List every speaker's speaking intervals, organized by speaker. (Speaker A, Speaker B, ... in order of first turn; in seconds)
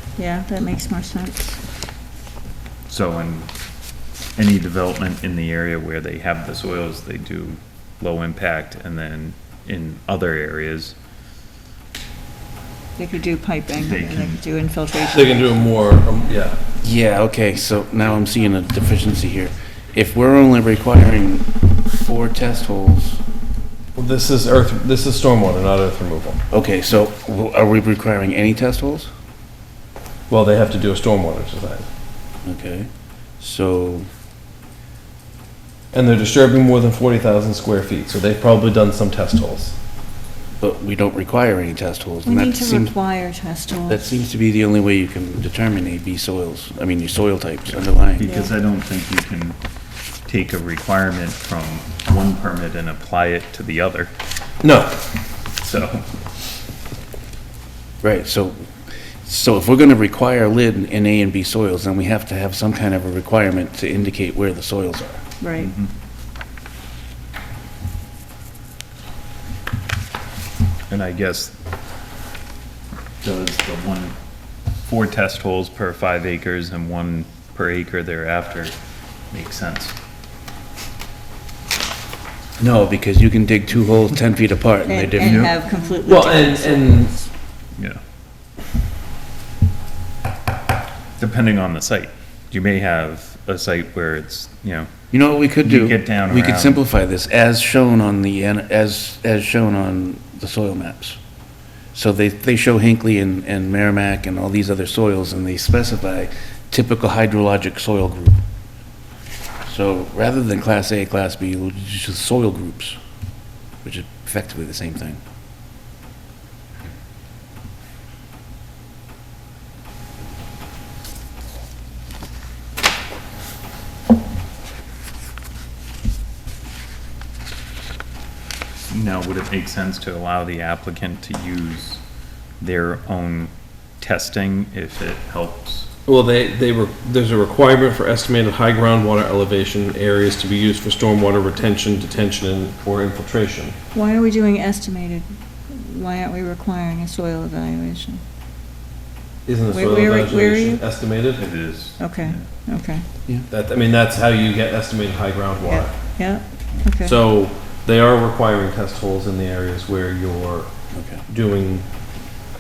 Speaker A: 0.2-1.6, 13.0-15.8, 42.2-44.1, 48.2-48.5, 65.4-65.7, 84.8-87.1, 143.9-148.2, 149.7-150.8, 152.0-153.1, 155.6-157.2
Speaker B: 2.9-3.5, 4.4-10.9, 13.8-14.4, 47.7-49.6, 50.3-54.1, 55.6-56.0, 65.6-65.9, 70.9-71.5, 73.2-74.1, 74.8-78.7, 79.3-80.0, 91.2-94.9, 95.6-96.8, 128.9-132.0, 132.6-135.9, 151.4-152.5
Speaker C: 15.0-16.6, 23.9-26.4, 30.3-31.9, 35.9-39.8, 54.6-55.0, 86.0-87.1, 136.1-143.8, 149.4-151.5, 153.5-156.1, 157.0-160.7, 161.3-161.9
Speaker D: 16.8-23.2, 26.5-29.1, 32.4-34.1, 40.6-42.9, 43.9-48.2, 58.0-65.2, 82.6-85.5, 95.1-101.2, 101.9-108.4, 109.7-113.0, 113.8-115.2, 160.9-161.2